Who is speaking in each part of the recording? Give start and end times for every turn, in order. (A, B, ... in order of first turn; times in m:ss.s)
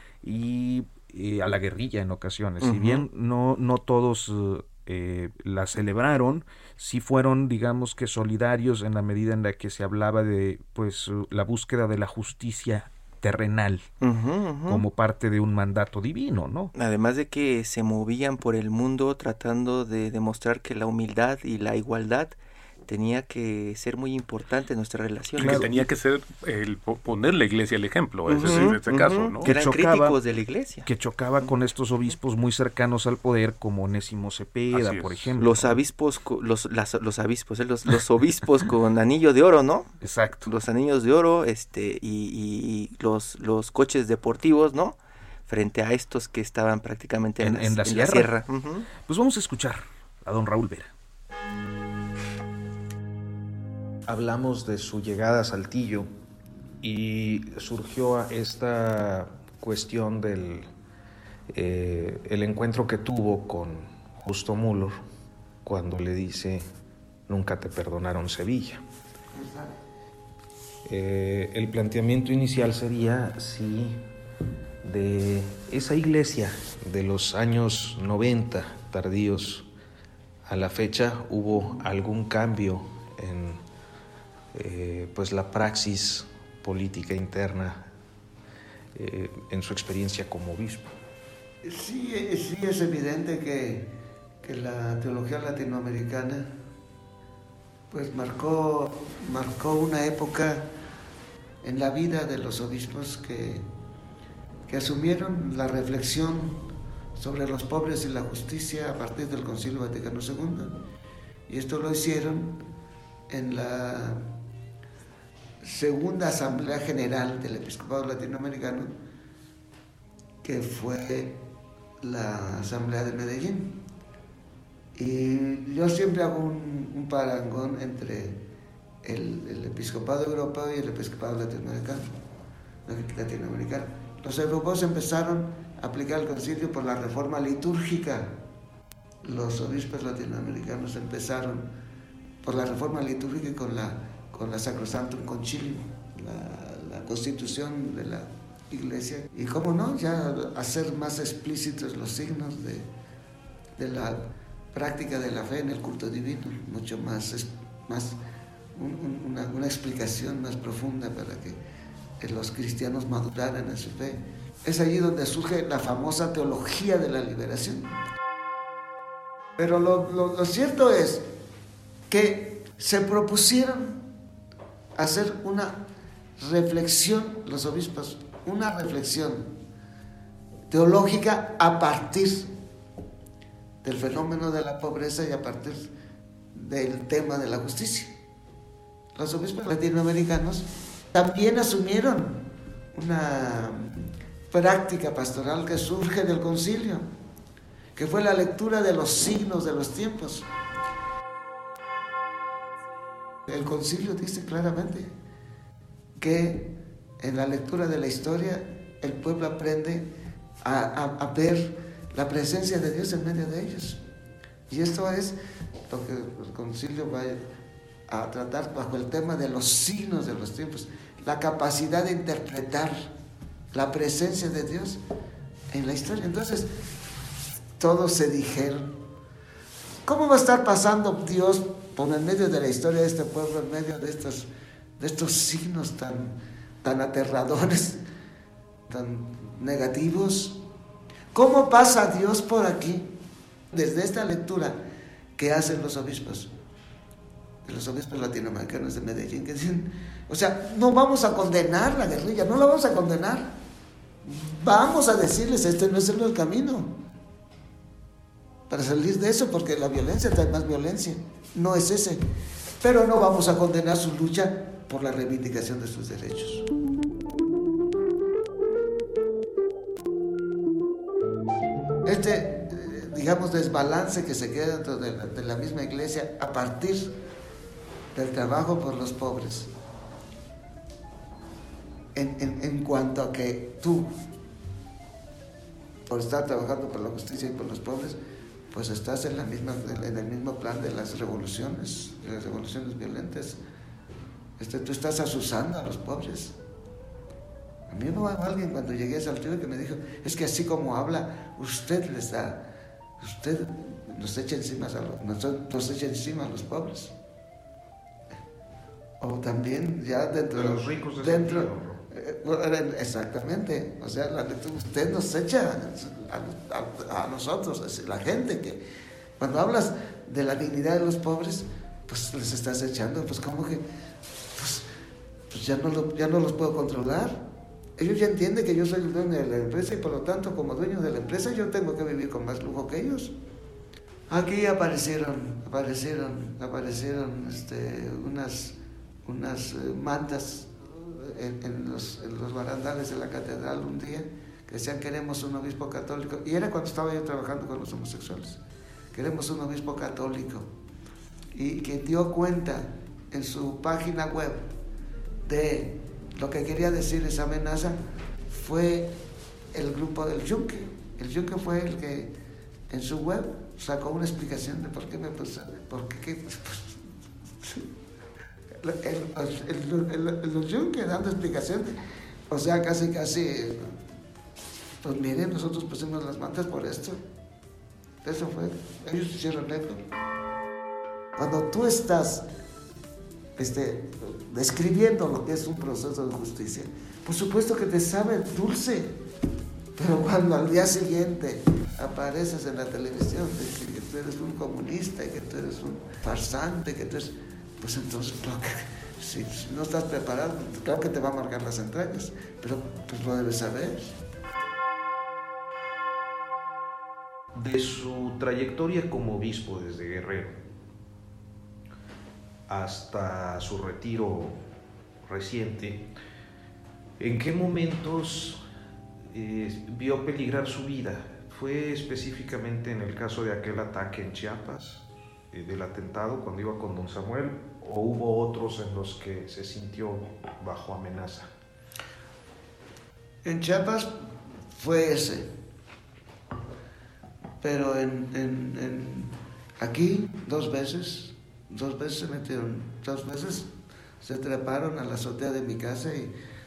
0:00.2-0:13.9 A
0:02.6-0:03.0 B
0:14.0-0:14.8 B
0:14.7-0:16.7 A
0:16.7-0:22.4 B
0:22.9-0:25.8 B
0:25.4-0:25.7 A
0:25.4-0:29.4 C
0:28.3-0:30.9 B
0:28.4-0:28.7 A
0:29.4-0:30.2 A
0:30.8-0:35.8 A
0:34.7-0:35.3 C
0:35.4-0:39.9 B
0:40.0-0:40.5 A
0:40.4-0:45.0 B
0:45.5-0:48.9 B
0:47.4-0:48.3 A
0:49.0-0:50.9 A
0:54.1-0:56.1 A
0:56.8-1:00.7 A
1:01.5-1:05.0 A
1:05.6-1:06.7 A
1:07.3-1:08.8 A
1:09.3-1:09.8 D
1:10.8-1:14.0 A
1:14.8-1:19.7 A
1:20.4-1:23.6 A
1:24.5-1:27.9 A
1:28.9-1:30.9 A
1:31.6-1:36.5 D
1:37.9-1:40.7 D
1:41.6-1:43.6 D
1:44.7-1:50.8 D
1:51.5-1:52.6 D
1:53.3-1:54.2 D
1:55.6-1:58.9 D
2:00.4-2:01.4 D
2:02.0-2:03.8 D
2:04.9-2:08.4 D
2:09.0-2:12.1 D
2:12.8-2:18.3 D
2:19.2-2:21.7 D
2:22.4-2:32.9 D
2:33.8-2:38.2 D
2:38.7-2:41.6 D
2:42.2-2:48.0 D
2:49.6-2:51.2 D
2:52.1-2:54.0 D
2:55.0-2:55.8 D
2:56.4-2:59.5 D
3:00.7-3:02.5 D
3:03.8-3:05.9 D
3:06.5-3:08.2 D
3:09.2-3:17.0 D
3:18.0-3:20.5 D
3:23.5-3:25.1 D
3:26.2-3:30.1 D
3:30.6-3:34.0 D
3:34.7-3:35.4 D
3:35.9-3:37.4 D
3:38.1-3:43.1 D
3:43.7-3:45.0 D
3:45.7-3:46.7 D
3:47.8-3:49.0 D
3:50.0-3:58.0 D
3:58.9-4:00.6 D
4:01.3-4:03.1 D
4:03.7-4:04.8 D
4:05.4-4:06.5 D
4:07.6-4:13.6 D
4:14.2-4:17.0 D
4:18.7-4:22.2 D
4:22.8-4:26.7 D
4:32.0-4:37.1 D
4:38.1-4:39.7 D
4:42.1-4:44.1 D
4:46.1-4:48.2 D
4:48.7-4:53.6 D
4:54.6-4:56.6 D
4:57.9-5:02.6 D
5:03.2-5:07.1 D
5:09.2-5:18.8 D
5:10.5-5:12.0 A
5:19.4-5:23.8 D
5:24.5-5:24.8 D
5:25.5-5:27.4 D
5:28.0-5:33.3 D
5:34.3-5:48.6 D
5:49.1-5:50.7 D
5:51.5-5:54.7 D
5:55.4-5:59.1 D
5:59.7-6:02.3 D
6:02.9-6:07.0 D
6:07.6-6:07.9 D
6:08.8-6:12.0 D
6:12.5-6:13.9 D
6:15.0-6:17.2 D
6:18.2-6:20.0 D
6:21.4-6:22.4 D
6:23.6-6:29.2 D
6:30.0-6:44.1 D
6:47.5-6:50.6 A
6:52.7-6:54.6 A
6:55.2-6:56.1 A
6:57.2-6:58.6 A
6:59.3-7:11.5 A
7:13.4-7:14.1 D
7:14.8-7:15.5 D
7:17.6-7:26.3 D